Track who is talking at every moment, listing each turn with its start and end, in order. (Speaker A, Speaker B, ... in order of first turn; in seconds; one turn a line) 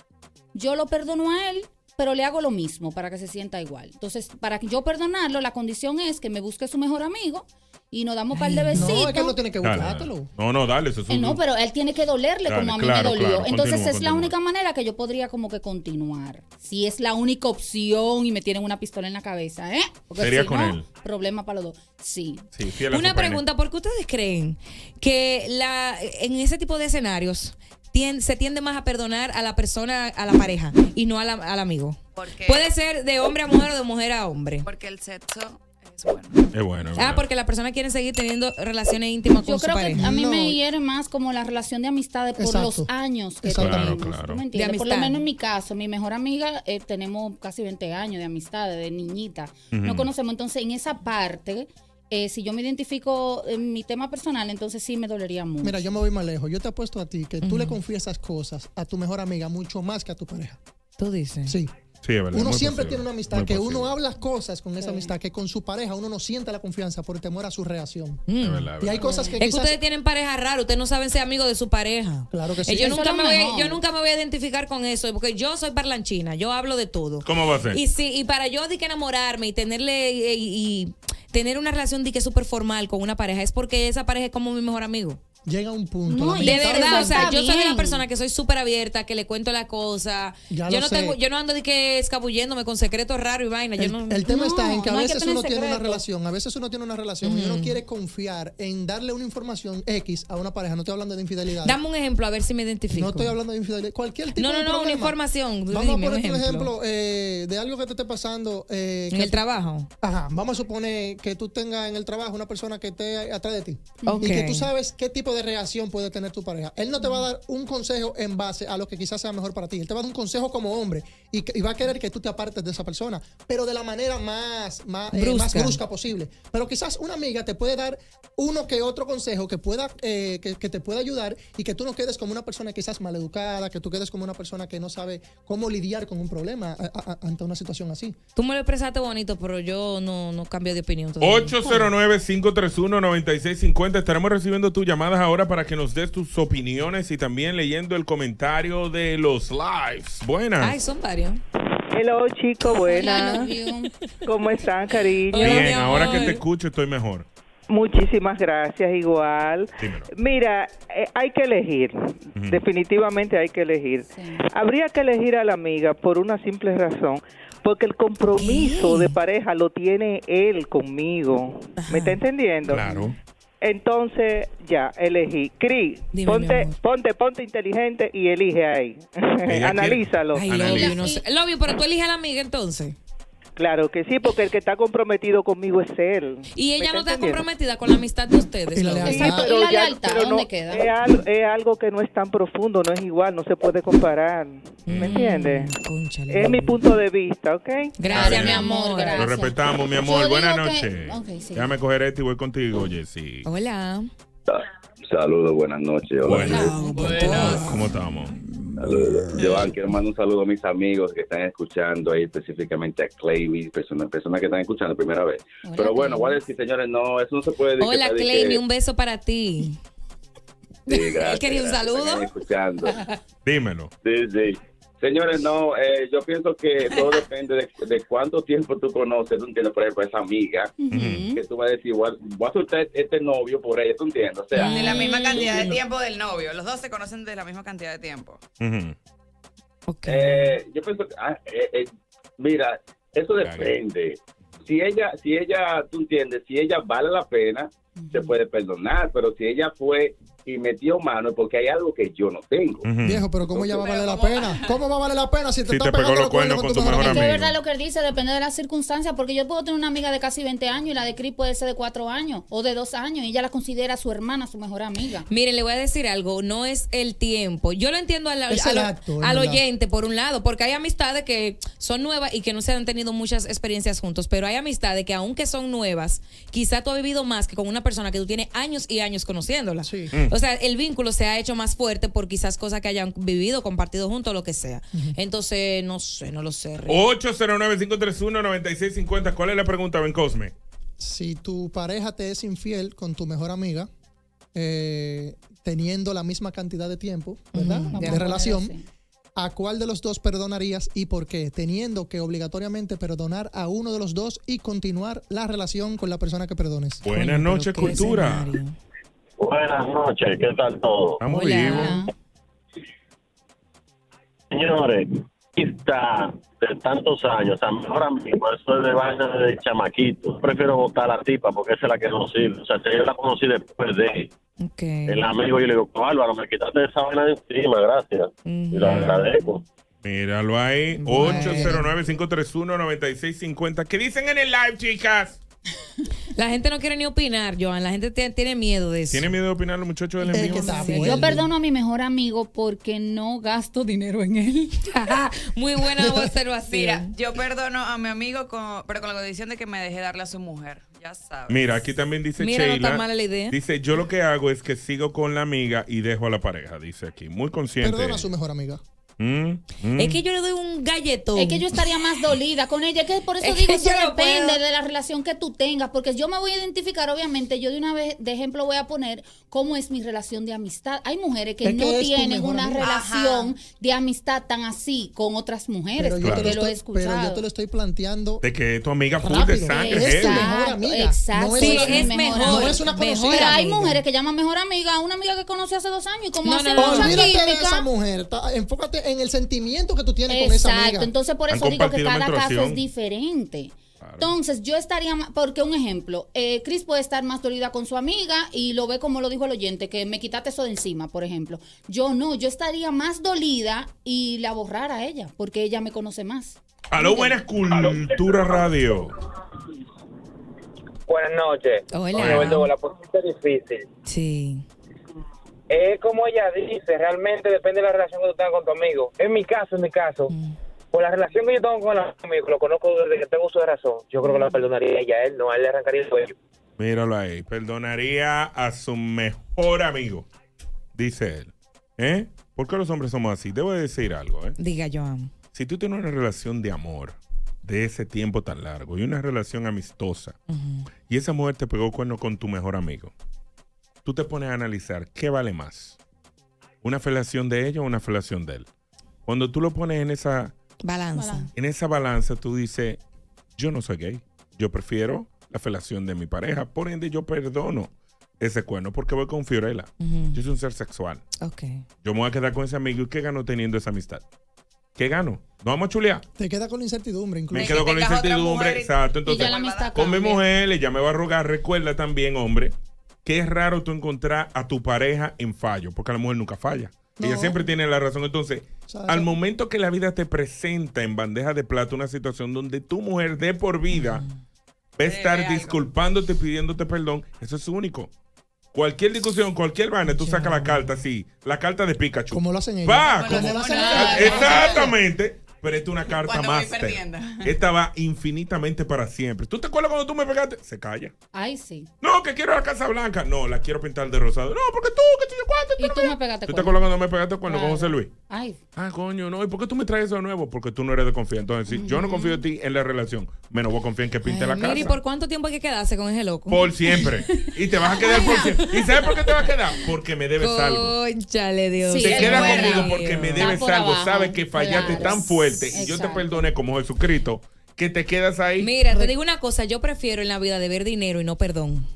Speaker A: 0.5-9.4
Speaker B: 8.3-8.9
Speaker C: 8.7-10.3
Speaker D: 9.6-11.4
Speaker A: 11.1-22.4
Speaker D: 12.4-14.3
Speaker D: 20.2-20.9
Speaker D: 22.5-23.4
Speaker B: 22.9-34.6
Speaker E: 32.1-32.7
Speaker E: 34.6-36.5
Speaker D: 36.5-37.2
Speaker B: 36.9-40.0
Speaker A: 39.4-55.9
Speaker C: 39.9-40.6
Speaker C: 42.4-44.1
Speaker D: 43.5-44.4
Speaker B: 44.5-45.2
Speaker D: 49.7-50.1
Speaker C: 55.6-60.6
Speaker B: 57.4-57.8
Speaker B: 61.0-61.6
Speaker C: 61.4-61.7
Speaker D: 62.0-64.0
Speaker C: 62.3-68.2
Speaker A: 64.8-65.1
Speaker B: 68.3-68.7
Speaker D: 68.4-69.0
Speaker C: 68.8-69.8
Speaker A: 69.0-69.4
Speaker B: 69.4-85.2
Speaker C: 72.3-73.0
Speaker A: 72.8-73.8
Speaker D: 77.2-77.8
Speaker C: 85.4-87.3
Speaker A: 86.1-88.0
Speaker B: 86.4-94.3
Speaker C: 90.5-91.2
Speaker C: 93.8-101.8
Speaker A: 94.2-96.0
Speaker B: 97.2-97.8
Speaker B: 101.6-103.3
Speaker C: 102.9-109.4
Speaker B: 104.3-106.7
Speaker B: 109.1-109.9
Speaker C: 110.0-138.2
Speaker A: 114.0-114.3
Speaker B: 114.0-114.7
Speaker B: 125.1-125.8
Speaker B: 138.3-141.9
Speaker D: 141.2-150.8
Speaker B: 150.6-151.4
Speaker F: 151.9-153.5
Speaker A: 152.9-153.9
Speaker B: 152.9-153.4
Speaker F: 154.2-156.3
Speaker B: 155.3-156.4
Speaker D: 155.3-157.3
Speaker F: 157.7-180.4
Speaker D: 159.8-160.1
Speaker D: 162.3-162.6
Speaker A: 164.1-164.4
Speaker B: 168.3-169.2
Speaker B: 171.8-172.2
Speaker D: 172.6-173.1
Speaker B: 176.1-176.8
Speaker D: 179.5-181.1
Speaker B: 180.3-183.0
Speaker A: 180.6-181.2
Speaker F: 183.6-187.5
Speaker B: 186.6-189.2
Speaker C: 188.7-189.5
Speaker F: 189.0-195.7
Speaker A: 189.1-190.9
Speaker D: 194.9-195.2
Speaker B: 194.9-196.8
Speaker F: 196.3-198.1
Speaker B: 198.0-199.3
Speaker A: 198.1-201.8
Speaker D: 198.1-203.5
Speaker B: 203.4-204.1
Speaker G: 204.5-207.6
Speaker D: 206.2-206.7
Speaker A: 206.4-207.3
Speaker B: 206.5-207.8
Speaker D: 207.5-208.3
Speaker G: 208.8-218.6
Speaker A: 215.6-216.4
Speaker B: 217.8-219.8
Speaker G: 220.9-223.0
Speaker B: 220.9-222.3
Speaker D: 223.4-223.9
Speaker G: 224.0-230.7
Speaker A: 230.8-231.4
Speaker D: 230.9-231.3
Speaker G: 231.3-234.9
Speaker B: 234.5-235.7
Speaker A: 234.6-235.1
Speaker E: 234.7-238.4
Speaker D: 235.4-235.8
Speaker D: 238.6-238.9
Speaker B: 239.9-240.6
Speaker G: 240.1-252.8
Speaker D: 243.4-243.8
Speaker A: 248.0-248.3
Speaker D: 252.8-253.3
Speaker C: 253.0-257.4
Speaker E: 253.8-254.5
Speaker D: 255.7-257.5
Speaker A: 256.9-265.3
Speaker B: 265.3-287.0
Speaker C: 268.5-269.6
Speaker C: 279.8-280.1
Speaker D: 286.9-290.5
Speaker C: 291.0-293.9
Speaker C: 294.5-298.8
Speaker B: 297.5-298.2
Speaker A: 297.9-298.8
Speaker C: 299.4-307.0
Speaker D: 307.0-308.5
Speaker B: 307.1-308.8
Speaker H: 309.4-311.1
Speaker D: 311.2-312.0
Speaker B: 311.2-312.0
Speaker A: 311.7-312.1
Speaker H: 314.5-324.3
Speaker B: 324.6-325.3
Speaker H: 325.1-329.6
Speaker B: 328.4-329.3
Speaker D: 328.8-329.3
Speaker D: 330.0-335.4
Speaker B: 331.0-331.8
Speaker C: 331.1-331.8
Speaker B: 336.3-339.3
Speaker D: 339.1-341.3
Speaker A: 340.3-344.8
Speaker C: 340.3-341.5
Speaker B: 340.5-341.1
Speaker B: 344.9-347.1
Speaker E: 346.7-351.8
Speaker D: 351.5-358.3
Speaker B: 352.4-353.6
Speaker C: 357.8-358.8
Speaker D: 359.2-360.2
Speaker B: 360.0-361.7
Speaker A: 361.4-377.4
Speaker B: 363.4-364.6
Speaker C: 371.6-372.9
Speaker E: 372.8-373.5
Speaker C: 376.0-378.4
Speaker D: 376.2-376.6
Speaker D: 378.4-380.5
Speaker C: 379.2-384.0
Speaker A: 379.6-387.9
Speaker B: 381.5-383.9
Speaker B: 386.4-387.2
Speaker C: 386.8-391.1
Speaker A: 390.3-407.4
Speaker D: 391.5-392.8
Speaker D: 394.0-394.3
Speaker D: 406.9-409.1
Speaker I: 411.1-413.8
Speaker B: 411.9-412.7
Speaker B: 414.1-414.6
Speaker I: 415.7-420.3
Speaker I: 420.9-426.3
Speaker D: 426.8-430.2
Speaker D: 430.9-434.6
Speaker B: 434.6-435.3
Speaker D: 435.5-440.3
Speaker B: 440.5-440.9
Speaker D: 441.0-443.1
Speaker D: 444.0-446.0
Speaker D: 446.8-448.7
Speaker D: 449.2-450.5
Speaker B: 450.8-451.5
Speaker A: 451.1-451.5
Speaker D: 451.5-453.0
Speaker D: 453.6-461.2
Speaker B: 460.0-460.4
Speaker B: 461.4-461.8
Speaker D: 462.0-464.2
Speaker D: 464.9-466.2
Speaker C: 466.4-467.8
Speaker D: 467.5-484.2
Speaker E: 467.6-470.1
Speaker A: 469.2-470.4
Speaker C: 477.2-477.6
Speaker C: 478.9-479.3
Speaker B: 483.9-484.3
Speaker D: 485.0-488.1
Speaker E: 485.0-485.8
Speaker D: 488.7-501.1
Speaker B: 490.1-490.9
Speaker C: 492.3-494.9
Speaker E: 493.1-494.8
Speaker A: 493.8-494.9
Speaker E: 496.1-497.5
Speaker A: 501.3-501.9
Speaker D: 502.0-508.1
Speaker A: 505.8-506.9
Speaker A: 507.4-508.6
Speaker D: 508.8-515.0
Speaker A: 511.7-512.4
Speaker B: 514.2-516.6
Speaker D: 516.5-520.9
Speaker A: 517.0-518.6
Speaker B: 518.0-519.1
Speaker B: 520.4-523.6
Speaker A: 521.8-526.5
Speaker D: 522.0-528.8
Speaker B: 528.6-531.9